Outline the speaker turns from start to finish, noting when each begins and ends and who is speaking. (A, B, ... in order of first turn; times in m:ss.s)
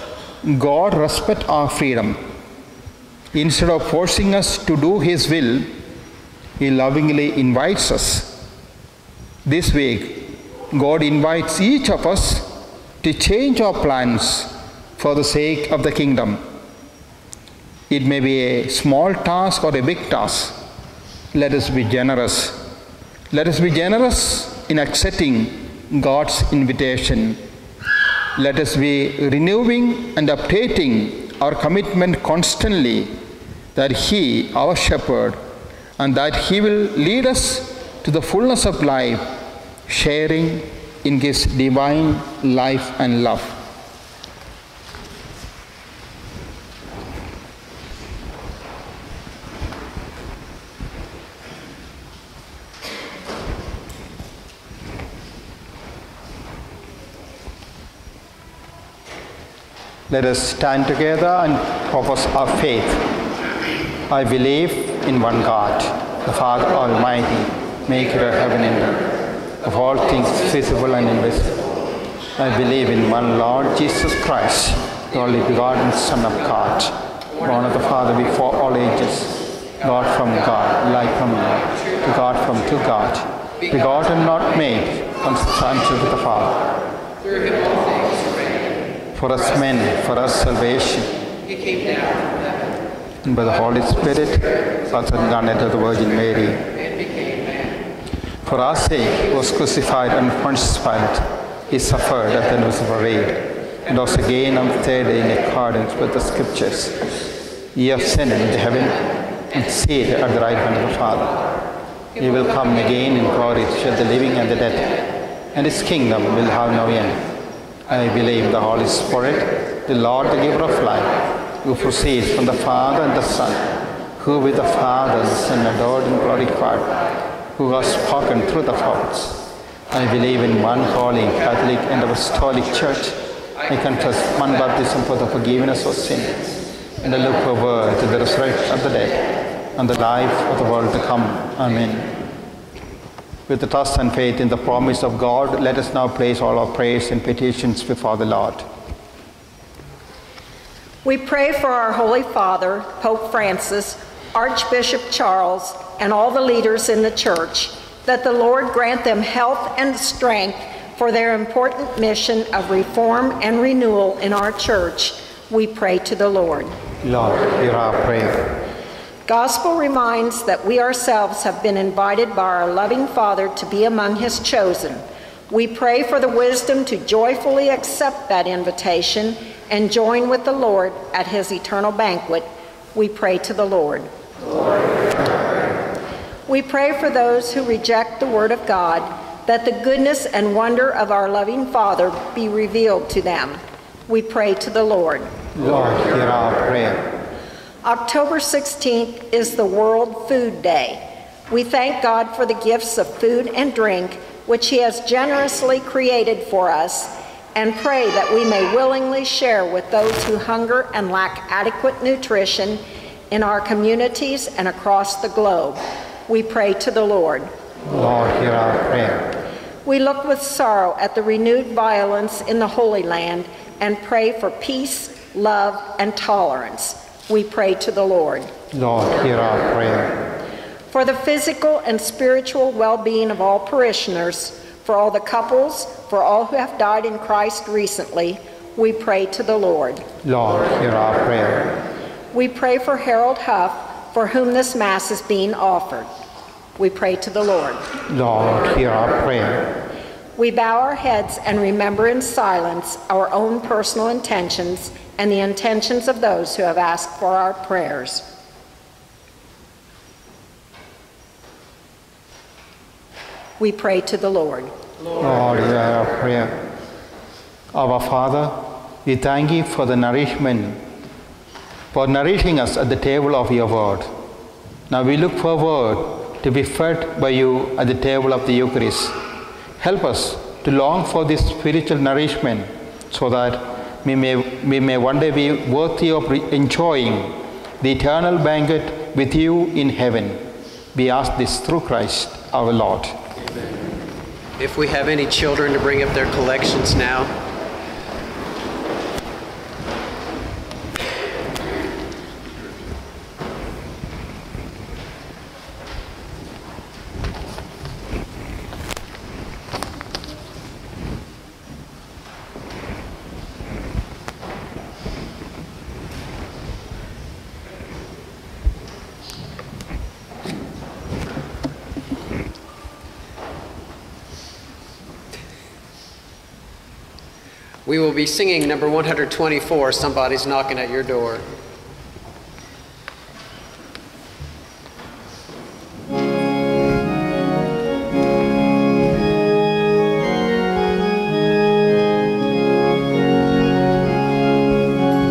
0:00.4-0:02.2 A
0:03.3-0:05.7 A
0:06.6-0:08.3 A
0:09.4-0:12.5 A
0:13.0-0:16.4 A
0:17.9-0:20.6 A
0:21.3-0:22.6 A
0:23.3-0:27.4 A
0:28.4-0:33.1 A
0:33.7-0:35.4 A
0:36.0-0:39.3 A
0:39.9-0:43.6 A
1:00.1-1:03.0 A
1:04.1-1:09.0 A
1:09.6-1:11.6 A
1:12.4-1:26.6 A
1:27.2-1:28.8 B
1:29.1-1:31.1 A
1:31.4-1:32.7 B
1:33.2-1:36.6 A
1:36.7-1:37.8 B
1:38.4-1:47.0 A
1:47.7-1:51.5 A
1:52.2-1:55.0 A
1:55.5-1:57.2 A
1:57.9-2:06.9 A
2:07.6-2:16.4 A
2:17.0-2:22.1 A
2:23.5-2:28.6 A
2:31.0-2:46.7 C
2:47.0-2:48.5 A
2:49.3-3:04.1 C
3:06.5-3:15.3 C
3:15.5-3:17.0 A
3:17.8-3:37.5 C
3:37.9-3:39.3 A
3:39.8-3:48.5 C
3:48.7-3:50.2 A
3:50.9-4:00.0 C
4:00.2-4:01.7 A
4:02.3-4:06.1 C
4:06.8-4:07.9 C
4:08.1-4:09.7 A
4:10.4-4:18.2 C
4:23.6-4:24.7 C
4:25.1-4:26.5 A
4:27.7-4:30.8 A
4:31.9-4:34.1 A
4:34.9-4:39.1 A
4:39.8-4:50.4 A
4:50.9-4:53.2 A
4:54.6-4:57.3 B
5:27.8-5:31.4 B